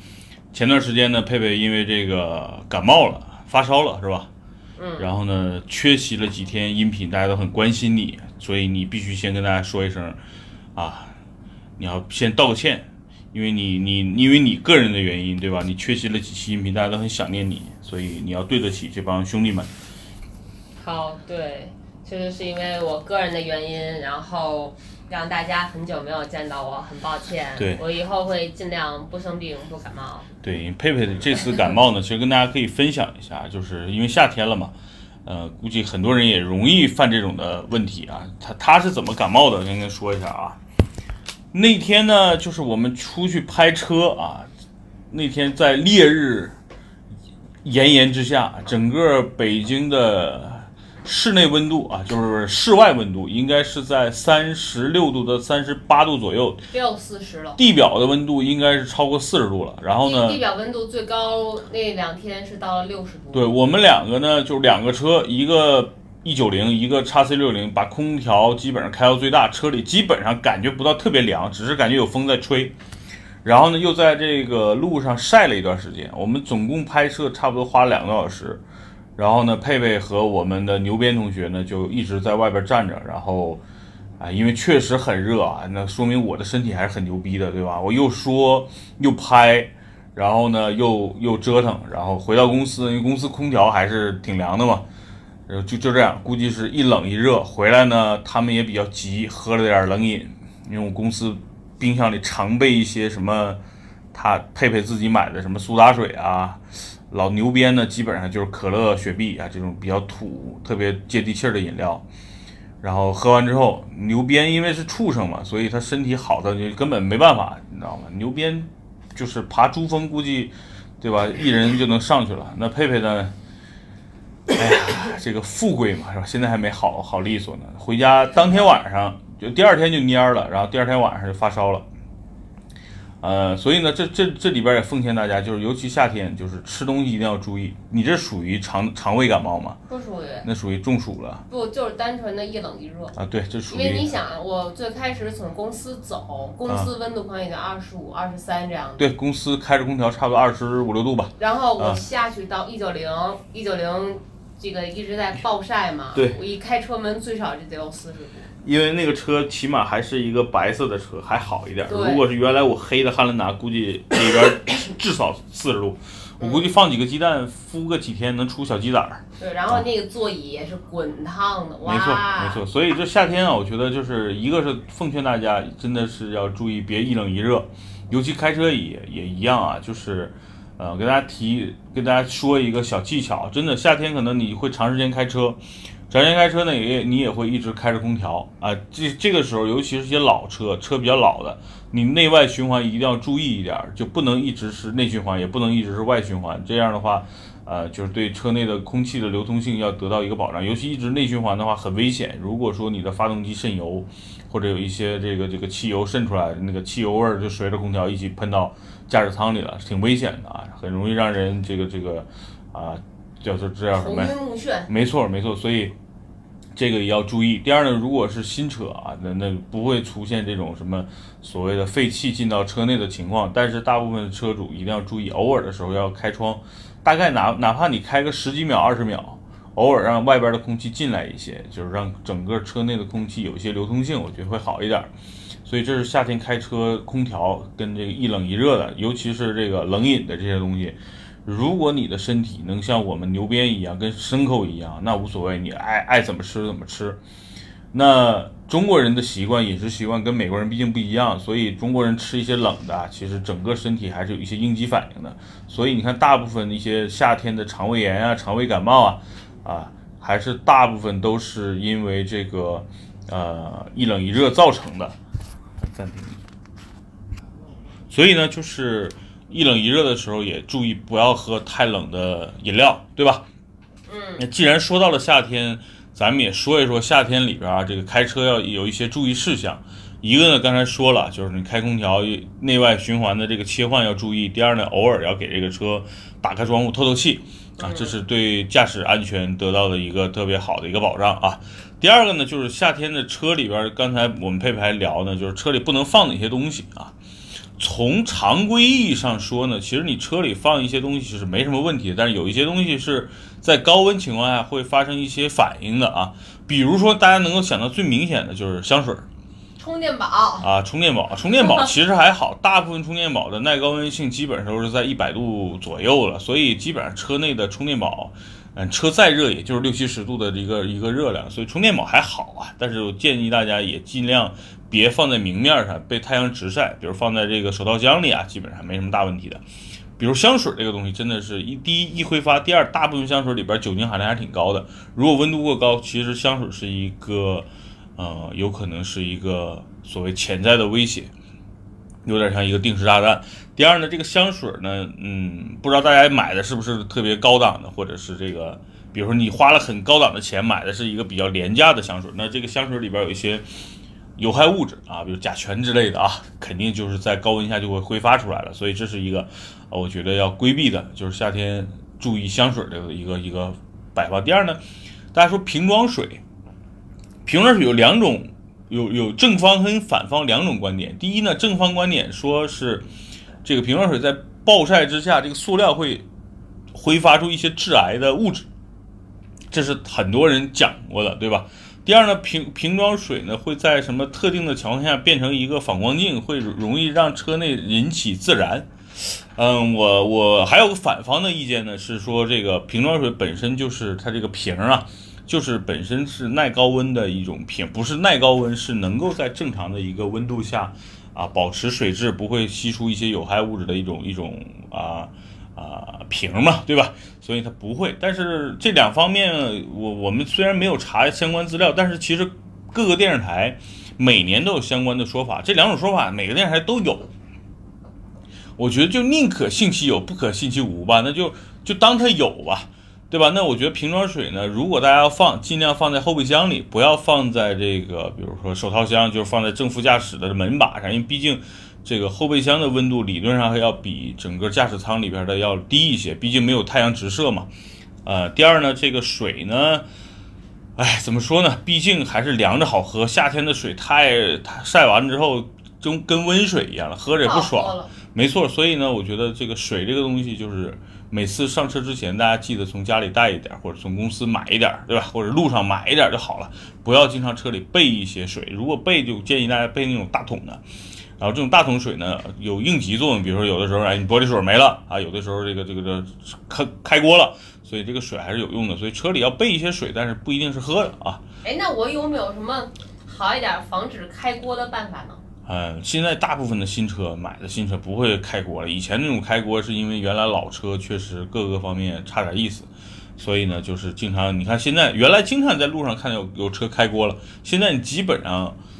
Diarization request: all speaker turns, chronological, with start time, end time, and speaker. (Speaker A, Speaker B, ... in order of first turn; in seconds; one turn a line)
Speaker A: 0.5-4.3
Speaker B: 4.8-5.1
Speaker A: 5.0-10.2
Speaker A: 10.7-11.2
Speaker A: 11.8-19.7
Speaker B: 20.8-30.3
Speaker A: 27.6-27.8
Speaker A: 30.4-34.7
Speaker A: 35.2-40.6
Speaker A: 41.5-44.5
Speaker A: 45.1-46.5
Speaker A: 47.6-56.7
Speaker B: 56.7-57.6
Speaker A: 57.6-60.4
Speaker B: 60.0-63.5
Speaker A: 63.3-72.7
Speaker A: 73.4-78.6
Speaker A: 79.2-83.6
Speaker A: 84.2-94.8
Speaker A: 95.5-103.6
Speaker A: 104.1-112.0
Speaker A: 112.8-123.3
Speaker A: 124.5-131.8
Speaker A: 133.2-139.8
Speaker B: 139.9-140.5
Speaker A: 140.4-141.4
Speaker B: 141.5-143.1
Speaker A: 143.1-144.1
Speaker B: 143.7-149.1
Speaker A: 149.0-152.0
Speaker B: 151.4-158.5
Speaker A: 156.1-156.4
Speaker A: 158.6-169.8
Speaker B: 161.9-162.2
Speaker B: 166.4-166.8
Speaker B: 169.4-172.6
Speaker A: 171.8-214.3
Speaker B: 213.9-214.9
Speaker A: 214.9-215.9
Speaker A: 216.7-235.1
Speaker A: 235.7-247.2
Speaker A: 247.9-265.1
Speaker A: 265.8-266.4
Speaker A: 268.1-273.4
Speaker B: 274.1-274.4
Speaker A: 274.4-297.1
Speaker B: 287.8-288.1
Speaker A: 297.8-309.3
Speaker B: 309.8-310.7
Speaker A: 310.6-329.6
Speaker A: 330.2-341.3
Speaker A: 342.2-353.6
Speaker A: 354.4-364.8
Speaker A: 365.3-366.4
Speaker A: 367.4-373.0
Speaker A: 373.6-376.2
Speaker A: 376.9-378.6
Speaker A: 379.7-417.3
Speaker A: 418.8-437.7
Speaker A: 438.2-440.0
Speaker A: 441.0-460.8
Speaker B: 447.4-448.1
Speaker A: 461.4-471.4
Speaker B: 471.6-475.4
Speaker A: 475.6-488.8